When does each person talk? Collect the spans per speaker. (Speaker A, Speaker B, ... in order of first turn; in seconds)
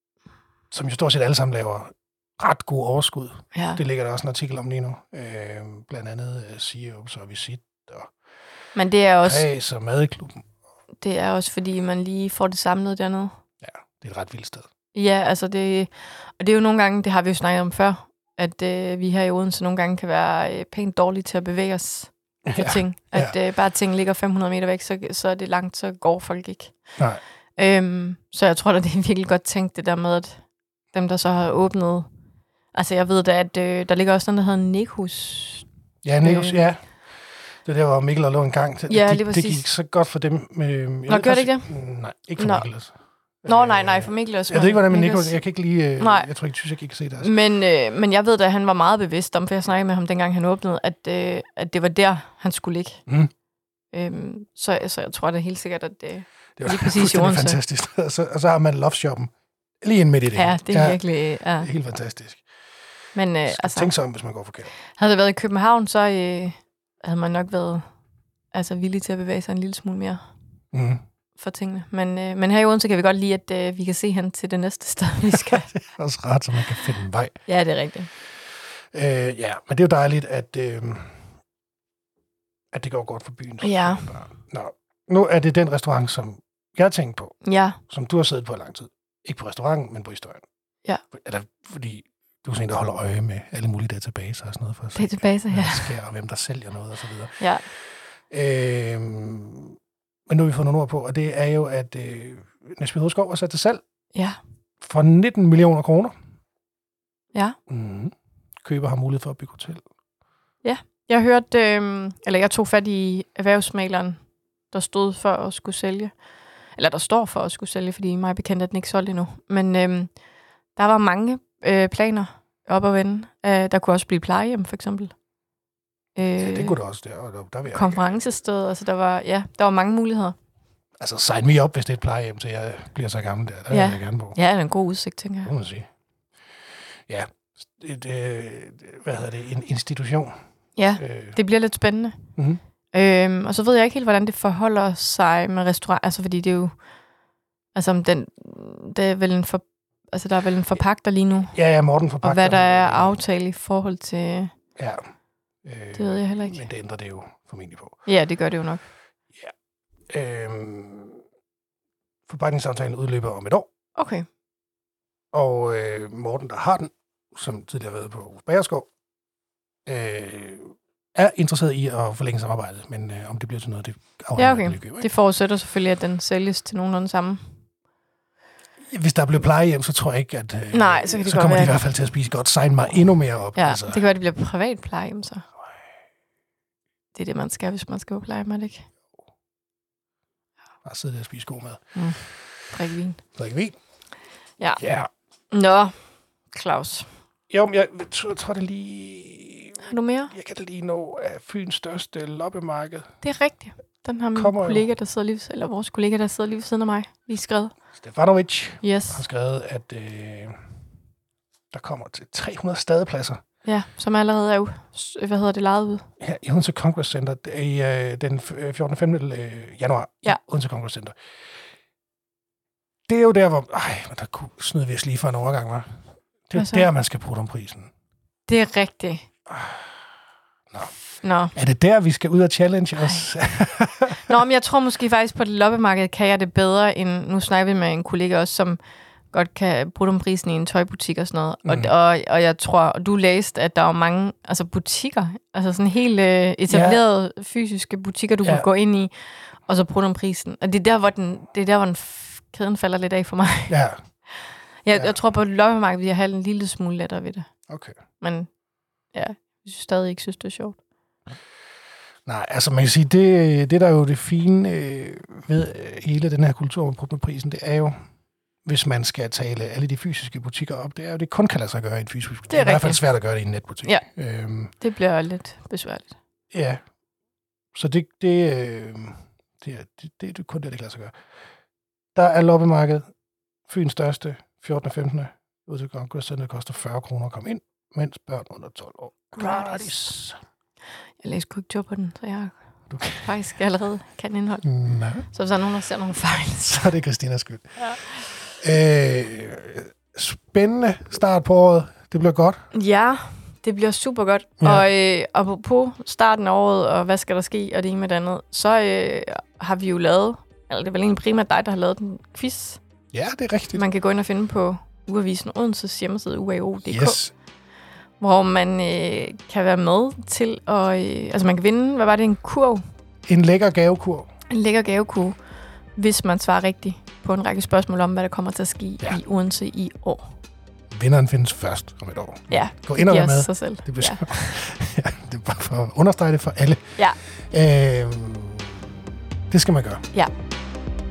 Speaker A: 0.7-8.1, 9.2-10.4, 13.6-14.7, 22.5-23.3, 36.0-36.8, 37.6-42.9, 43.4-47.3, 56.6-61.0, 61.6-62.4, 63.5-64.7, 70.7-71.0, 75.3-77.4, 78.9-81.2, 82.7-87.4, 87.9-90.4, 91.1-97.4, 98.3-103.8, 104.8-106.1, 107.7-109.9, 126.4-128.2, 131.0-134.4, 135.4-135.9, 137.1-140.3, 141.0-141.4, 151.5-153.2, 154.8-155.0, 155.7-158.0, 160.1-161.2, 162.3-163.7, 165.3-168.9, 169.9-175.1, 178.9-184.0, 190.8-191.8, 193.3-193.8, 194.8-195.1, 197.5-203.1, 204.3-204.9, 208.0-210.6, 211.7-213.4, 216.2-221.2, 223.1-226.0, 226.5-227.9, 229.5-229.9, 231.5-234.3, 241.7-241.9, 246.7-247.0, 253.7-254.0, 257.7-257.9, 262.3-267.9, 268.6-274.7, 276.5-276.8, 277.7-281.1, 282.1-283.1, 283.7-290.4, 292.9-293.3, 294.6-295.3, 296.6-302.7, 304.6-304.9, 313.1-313.8, 316.9-317.3, 323.3-324.3, 330.9-337.0, 337.5-340.0
Speaker B: 3.5-3.8, 8.8-9.4, 11.0-13.3, 14.9-26.8, 27.6-30.4, 30.9-32.1, 32.7-35.7, 36.2-36.6, 38.9-39.6, 41.1-41.7, 42.4-42.7, 43.5-45.4, 46.0-46.3, 47.2-53.0, 53.9-57.6, 60.4-61.7, 63.1-63.9, 64.9-67.8, 68.5-70.2, 71.4-75.7, 77.5-78.1, 83.6-84.1, 87.4-87.8, 95.0-95.9, 110.6-114.2, 114.7-116.1, 116.8-120.1, 120.8-125.1, 126.2-126.8, 127.7-130.3, 133.7-135.5, 140.8-142.2, 142.9-146.8, 147.8-151.5, 152.2-154.5, 156.0-156.6, 158.1-158.8, 164.0-164.3, 174.4-177.4, 180.7-181.8, 183.6-185.5, 187.1-188.9, 191.9-192.2, 192.7-193.2, 195.5-195.9, 196.5-197.1, 199.9-200.3, 203.2-207.7, 208.8-209.2, 213.7-216.1, 226.6-226.9, 228.5-229.3, 231.2-231.5, 234.2-238.8, 239.3-249.1, 249.7-253.8, 254.9-257.5, 258.2-258.5, 259.1-260.8, 272.5-273.0, 274.8-276.1, 289.4-289.9, 291.2-292.5, 293.2-294.7, 295.3-296.9, 302.7-312.8, 313.8-317.2, 318.2-322.8, 324.5-325.4, 326.0-330.4, 332.5-334.6